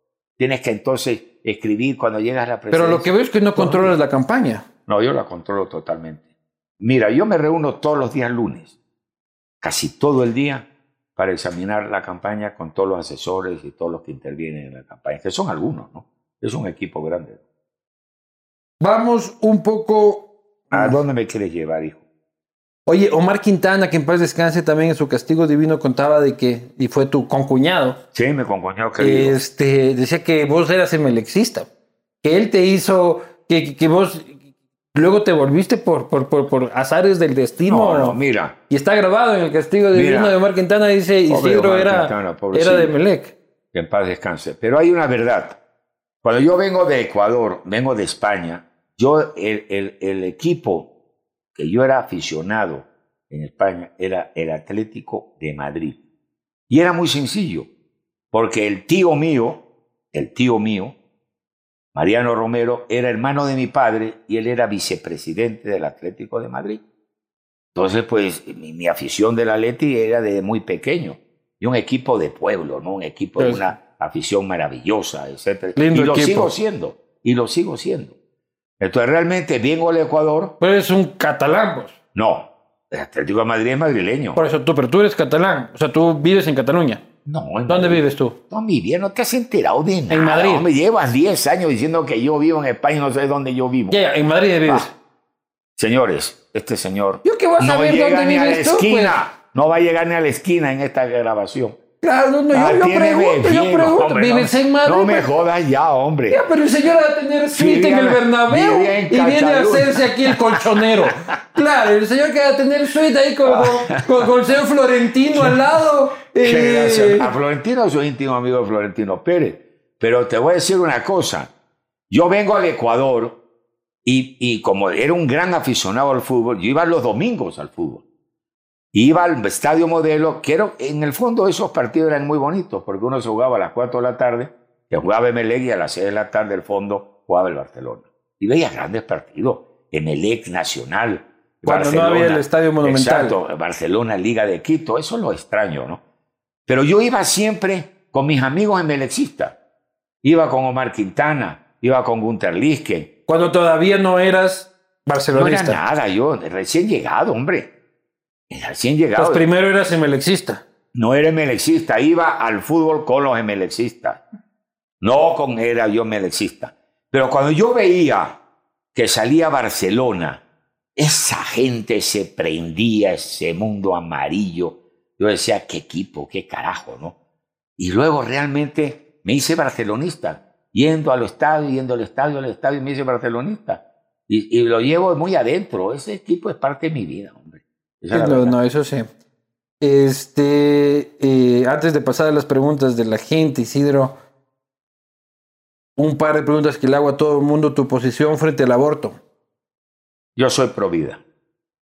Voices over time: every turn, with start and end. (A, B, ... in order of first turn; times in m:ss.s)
0:00.4-0:04.0 A
0:02.7-0:04.6 B
0:04.9-0:06.3 A
0:06.8-0:08.7 A
0:09.6-0:17.4 A
0:18.8-0:21.0 B
0:20.7-0:22.0 A
0:22.9-0:28.0 B
0:28.1-0:29.4 A
0:29.0-0:31.7 B
0:32.2-0:34.4 B
0:34.9-0:38.2 B
0:37.6-0:38.6 A
0:38.7-0:43.3 B
0:39.9-0:40.4 A
0:41.3-0:42.9 A
0:43.7-0:45.6 A
0:46.2-0:50.9 A
0:51.5-0:56.0 A
0:56.7-0:57.7 A
0:58.3-1:01.0 A
1:01.9-1:06.8 A
1:07.7-1:18.1 A
1:13.4-1:13.7 B
1:15.8-1:16.5 B
1:18.8-1:20.6 A
1:20.6-1:22.0 B
1:22.1-1:24.4 A
1:24.4-1:27.0 B
1:27.2-1:34.0 A
1:27.7-1:28.4 B
1:30.1-1:30.7 B
1:33.9-1:34.9 B
1:35.8-1:41.8 A
1:37.2-1:39.2 B
1:42.0-1:45.3 B
1:42.5-1:46.4 A
1:46.3-1:57.3 B
1:47.5-1:51.1 A
1:53.4-1:54.3 A
1:55.3-1:55.8 A
1:56.4-2:01.5 A
2:02.1-2:03.4 A
2:04.0-2:08.0 A
2:08.9-2:26.0 A
2:21.6-2:23.4 B
2:26.7-2:29.6 A
2:30.2-2:33.1 A
2:33.3-2:35.8 B
2:35.3-2:37.7 A
2:38.5-2:39.4 A
2:39.2-2:40.6 B
2:40.9-2:44.2 A
2:45.0-2:48.4 A
2:48.9-2:50.4 A
2:51.0-2:57.2 A
2:57.8-3:08.6 A
3:08.1-3:09.1 B
3:09.8-3:14.2 B
3:16.0-3:19.2 B
3:20.4-3:21.2 A